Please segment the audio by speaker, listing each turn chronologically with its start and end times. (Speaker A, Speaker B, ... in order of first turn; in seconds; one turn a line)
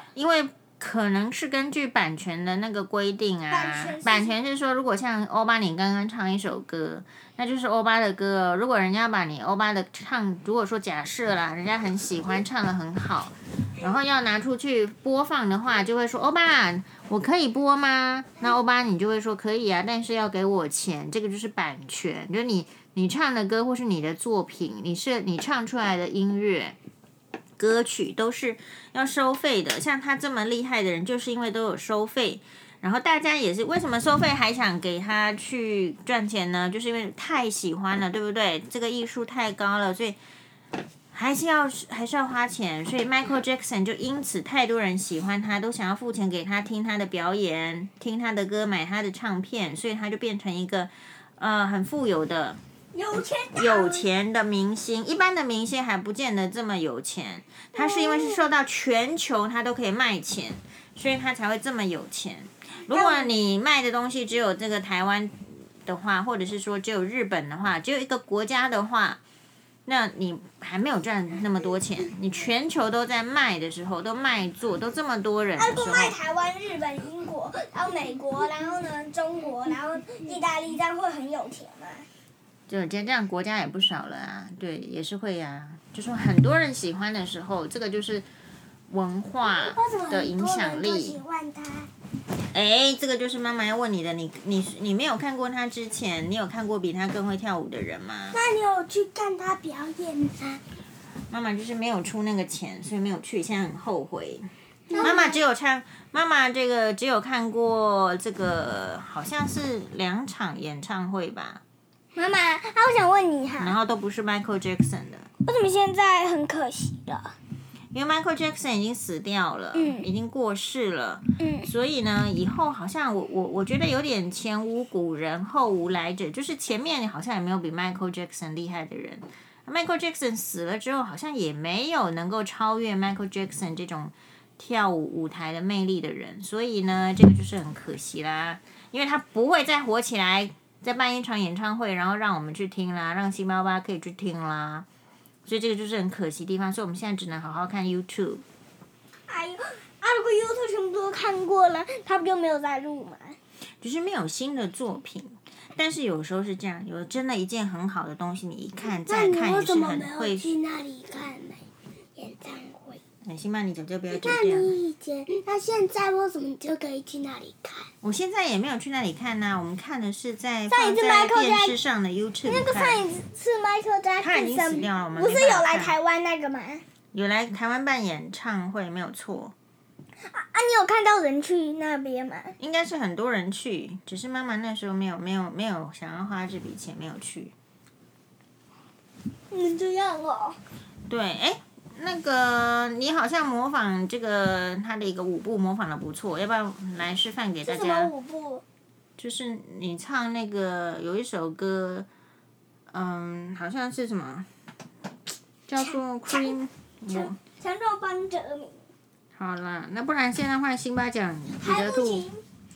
Speaker A: 0.1-26.8
Speaker B: 3.5-4.3
Speaker A: 27.6-40.2
Speaker A: 41.1-52.6
Speaker C: 52.9-54.0
Speaker A: 53.5-69.2
Speaker C: 57.8-58.5
Speaker B: 62.9-63.2
Speaker A: 69.8-76.2
Speaker B: 75.6-82.0
Speaker A: 82.7-88.2
Speaker A: 88.9-91.2
Speaker C: 89.4-91.9
Speaker A: 92.5-98.4
Speaker C: 98.3-100.6
Speaker A: 101.3-111.6
Speaker B: 104.9-105.4
Speaker C: 104.9-105.3
Speaker B: 112.1-113.8
Speaker A: 113.6-115.3
Speaker B: 115.4-117.3
Speaker A: 117.9-144.8
Speaker B: 119.7-120.0
Speaker B: 121.4-121.7
Speaker A: 145.4-148.4
Speaker B: 149.3-153.4
Speaker A: 153.8-160.6
Speaker C: 158.8-161.6
Speaker C: 162.2-163.0
Speaker A: 163.2-164.7
Speaker C: 164.1-167.9
Speaker A: 168.0-173.0
Speaker B: 170.7-171.8
Speaker B: 172.4-176.8
Speaker A: 174.2-176.0
Speaker A: 177.1-179.5
Speaker B: 180.3-182.5
Speaker A: 182.6-187.5
Speaker B: 189.5-190.6
Speaker A: 191.1-198.1
Speaker B: 197.6-198.6
Speaker A: 199.2-202.1
Speaker A: 202.9-204.5
Speaker A: 205.7-207.4
Speaker B: 207.1-208.8
Speaker A: 209.3-212.3
Speaker B: 211.7-212.3